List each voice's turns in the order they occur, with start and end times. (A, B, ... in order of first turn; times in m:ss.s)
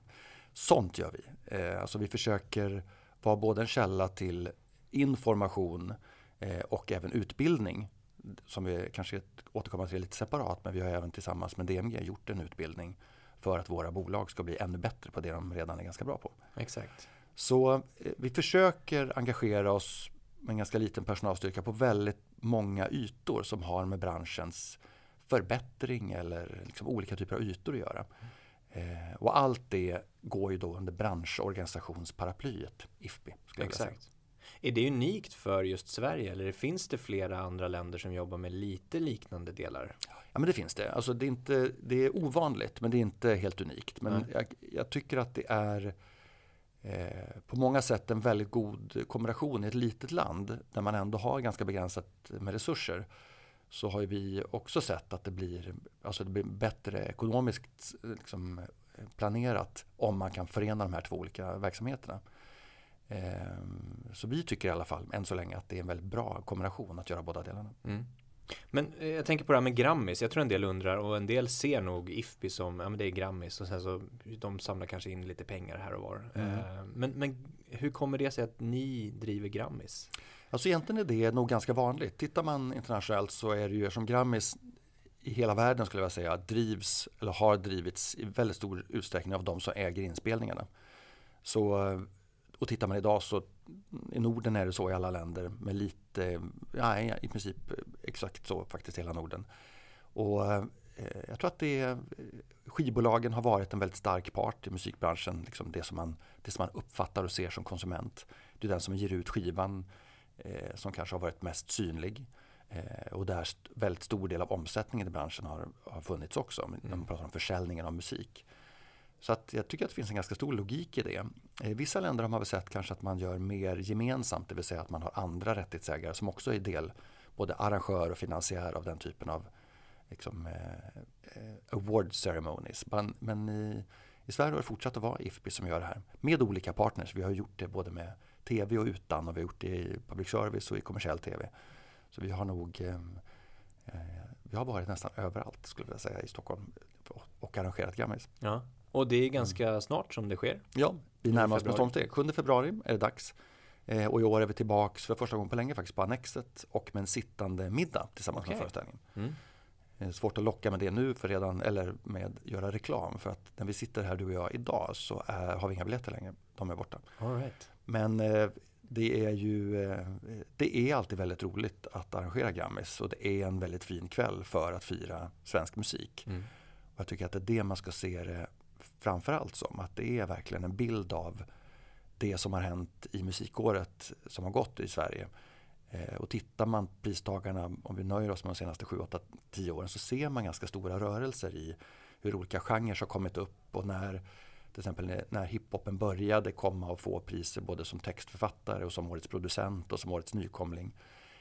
0:00.5-0:16.4 A
0:16.6-0:17.1 B
0:17.4-0:28.0 A
0:28.7-0:34.0 A
0:33.6-0:34.0 B
0:34.6-0:40.0 B
0:40.3-0:45.9 A
0:46.8-0:53.0 A
0:53.7-1:02.2 A
1:03.1-1:07.8 A
1:08.7-1:20.1 B
1:16.4-1:16.6 A
1:20.5-1:24.6 A
1:25.2-1:30.6 A
1:31.4-1:39.5 A
1:40.1-1:49.9 A
1:50.4-1:58.4 A
1:59.2-2:09.4 A
2:10.1-2:21.5 A
2:22.1-2:23.2 A
2:23.9-2:28.3 A
2:28.4-2:30.6 B
2:30.7-2:33.3 A
2:31.3-2:31.9 B
2:33.9-2:39.0 A
2:38.4-2:39.4 B
2:40.0-2:47.0 A
2:47.2-2:47.7 B
2:47.8-2:56.3 A
2:57.0-3:01.4 A
3:02.2-3:05.3 A
3:05.9-3:20.9 A